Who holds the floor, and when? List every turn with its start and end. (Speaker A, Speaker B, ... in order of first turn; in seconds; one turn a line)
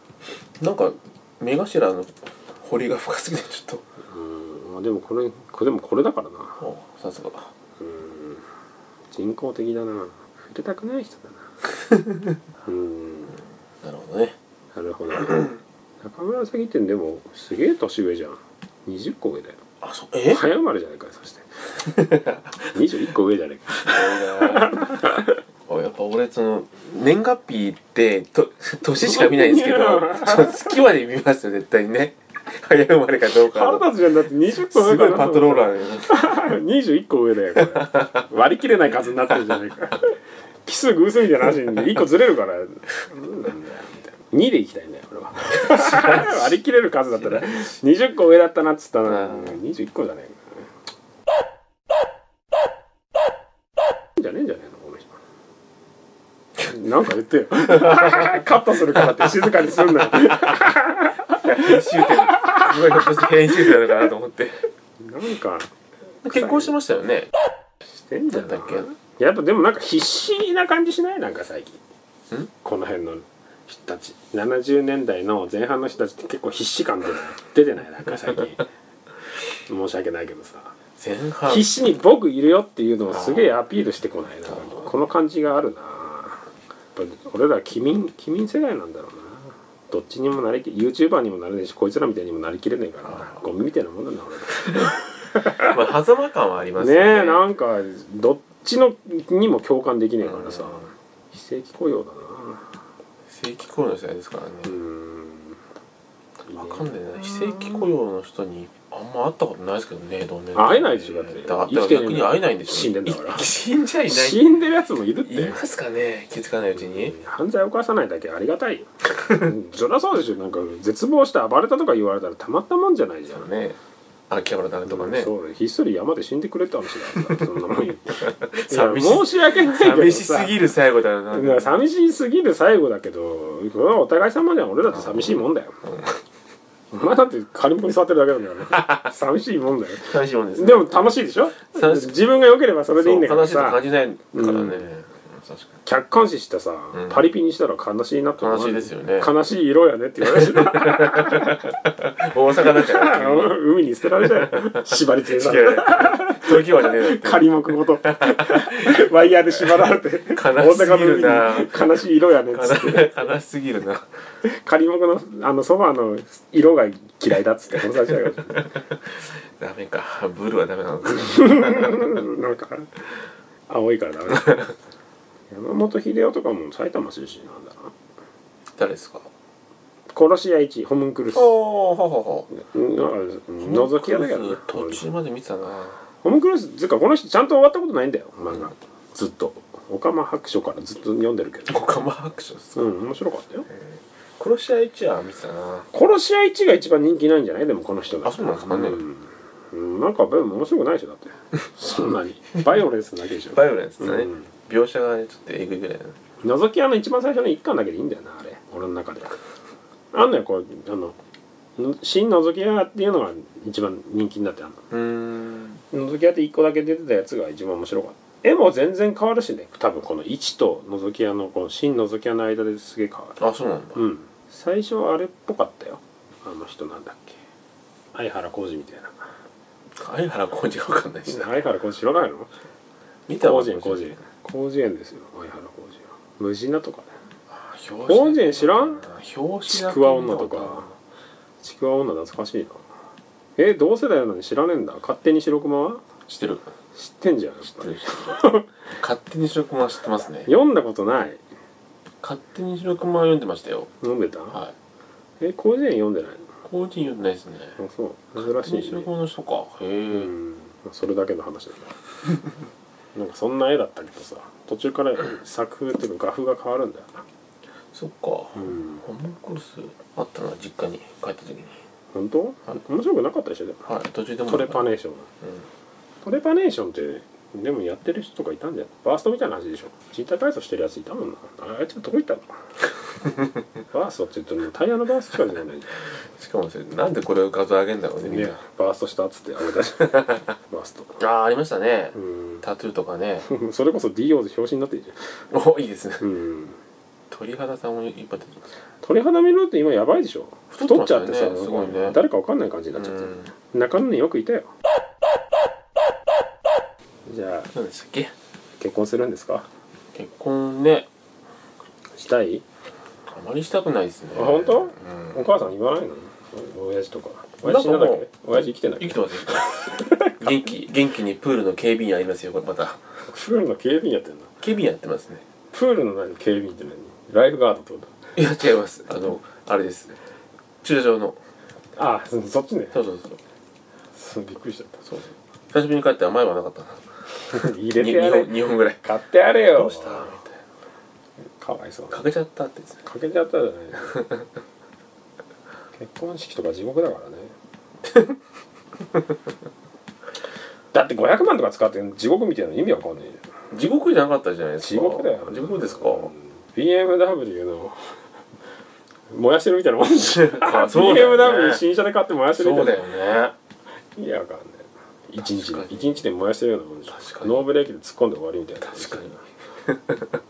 Speaker A: 0.6-3.8
Speaker B: 4.1-6.6
Speaker A: 6.6-7.5
Speaker B: 7.8-8.4
Speaker B: 9.1-11.4
Speaker A: 11.9-12.3
Speaker B: 12.6-13.4
Speaker A: 13.8-14.3
Speaker B: 14.7-19.6
Speaker A: 15.2-15.5
Speaker A: 19.8-20.4
Speaker B: 20.3-21.4
Speaker A: 21.8-22.7
Speaker B: 22.7-25.4
Speaker A: 23.8-25.1
Speaker A: 25.7-33.9
Speaker B: 29.0-30.8
Speaker B: 33.4-40.1
Speaker A: 34.5-36.5
Speaker A: 37.5-38.2
Speaker B: 40.6-50.6
Speaker A: 45.6-46.4
Speaker A: 49.0-49.6
Speaker B: 54.1-55.1
Speaker B: 56.6-63.7
Speaker A: 57.8-58.4
Speaker A: 60.1-60.6
Speaker A: 61.4-64.6
Speaker B: 65.0-65.7
Speaker B: 66.2-66.7
Speaker A: 66.2-67.3
Speaker B: 67.9-71.8
Speaker A: 68.3-68.9
Speaker B: 72.6-78.7
Speaker B: 79.7-80.7
Speaker A: 81.0-81.7
Speaker B: 81.5-86.4
Speaker A: 83.1-83.5
Speaker A: 84.5-84.9
Speaker B: 86.9-95.8
Speaker A: 93.0-93.4
Speaker A: 95.5-97.5
Speaker B: 96.8-102.7
Speaker A: 100.2-100.9
Speaker A: 103.3-104.8
Speaker B: 104.6-105.5
Speaker B: 106.5-107.8
Speaker A: 106.5-114.5
Speaker B: 110.5-113.5
Speaker B: 114.1-115.6
Speaker A: 115.2-117.2
Speaker B: 116.8-123.5
Speaker A: 123.3-123.8
Speaker A: 124.3-125.3
Speaker B: 124.8-130.6
Speaker A: 127.2-127.4
Speaker A: 128.2-131.8
Speaker B: 131.3-135.8
Speaker A: 134.9-136.2
Speaker B: 136.9-143.8
Speaker A: 138.7-139.0
Speaker A: 140.1-140.9
Speaker A: 141.7-142.3
Speaker A: 143.0-145.8
Speaker B: 144.3-144.8
Speaker B: 145.8-151.6
Speaker A: 146.9-147.2
Speaker A: 148.4-149.3
Speaker A: 150.2-153.6
Speaker B: 152.6-163.2
Speaker A: 154.2-164.1
Speaker B: 164.4-168.7
Speaker A: 168.4-172.2
Speaker B: 171.1-172.9
Speaker B: 173.7-174.7
Speaker B: 175.5-177.9
Speaker A: 178.8-179.3
Speaker B: 180.1-181.5
Speaker A: 181.3-182.5
Speaker B: 182.5-185.0
Speaker A: 183.6-186.0
Speaker B: 186.2-191.8
Speaker A: 191.7-192.9
Speaker B: 192.7-193.7
Speaker A: 193.7-195.9
Speaker B: 195.9-204.5
Speaker A: 198.2-199.0
Speaker A: 203.5-206.2
Speaker B: 206.4-209.4
Speaker B: 210.1-211.1
Speaker B: 211.8-214.8
Speaker A: 214.9-215.8
Speaker B: 215.9-223.4
Speaker A: 223.4-224.0
Speaker B: 223.9-227.4
Speaker B: 228.1-229.2
Speaker A: 229.9-231.5
Speaker B: 231.3-232.5
Speaker A: 233.3-234.1
Speaker B: 233.4-237.1
Speaker A: 237.5-240.9
Speaker B: 238.1-239.1
Speaker B: 239.7-240.8
Speaker B: 241.6-242.8
Speaker B: 243.6-246.0
Speaker A: 246.3-246.7
Speaker B: 246.9-248.7
Speaker A: 247.8-248.4
Speaker A: 249.0-250.5
Speaker B: 250.4-251.4
Speaker A: 252.2-253.9
Speaker B: 254.0-254.6
Speaker B: 255.4-256.4
Speaker A: 256.6-257.8
Speaker B: 257.8-259.1
Speaker A: 258.4-260.3
Speaker B: 260.1-261.9
Speaker B: 263.1-267.2
Speaker A: 267.9-271.8
Speaker B: 268.6-269.0
Speaker B: 272.1-273.9
Speaker A: 273.9-274.9
Speaker B: 274.4-275.3
Speaker A: 275.4-275.6
Speaker B: 276.2-282.4
Speaker B: 283.9-285.9
Speaker A: 286.3-288.5
Speaker B: 288.2-291.1
Speaker A: 291.2-293.4
Speaker B: 292.1-292.6
Speaker B: 293.4-295.1
Speaker A: 295.5-296.2
Speaker B: 296.2-296.8
Speaker A: 297.3-298.6
Speaker B: 299.0-304.7
Speaker A: 300.7-302.2
Speaker A: 302.9-303.5
Speaker B: 307.2-307.7
Speaker A: 307.7-308.3
Speaker B: 308.8-309.7
Speaker A: 310.1-311.1
Speaker B: 312.2-312.6
Speaker A: 313.3-315.5
Speaker B: 314.3-320.5
Speaker A: 317.6-318.2
Speaker A: 319.0-323.0
Speaker B: 323.3-324.5
Speaker A: 324.6-325.4
Speaker B: 325.7-328.1
Speaker A: 328.4-330.1
Speaker A: 330.8-331.4
Speaker B: 332.0-333.0
Speaker A: 332.9-333.4
Speaker B: 334.1-335.0
Speaker A: 335.1-339.0
Speaker B: 337.5-340.4
Speaker A: 339.7-340.6
Speaker B: 341.6-342.2
Speaker A: 342.1-343.0
Speaker B: 343.0-344.3
Speaker B: 346.0-347.5
Speaker A: 348.1-348.3
Speaker B: 350.9-353.4
Speaker A: 353.7-356.3
Speaker B: 354.8-357.9
Speaker B: 359.3-363.1
Speaker A: 360.4-361.8
Speaker A: 362.5-363.5
Speaker B: 364.1-369.4
Speaker A: 365.4-366.2
Speaker A: 367.1-367.6
Speaker A: 368.8-370.2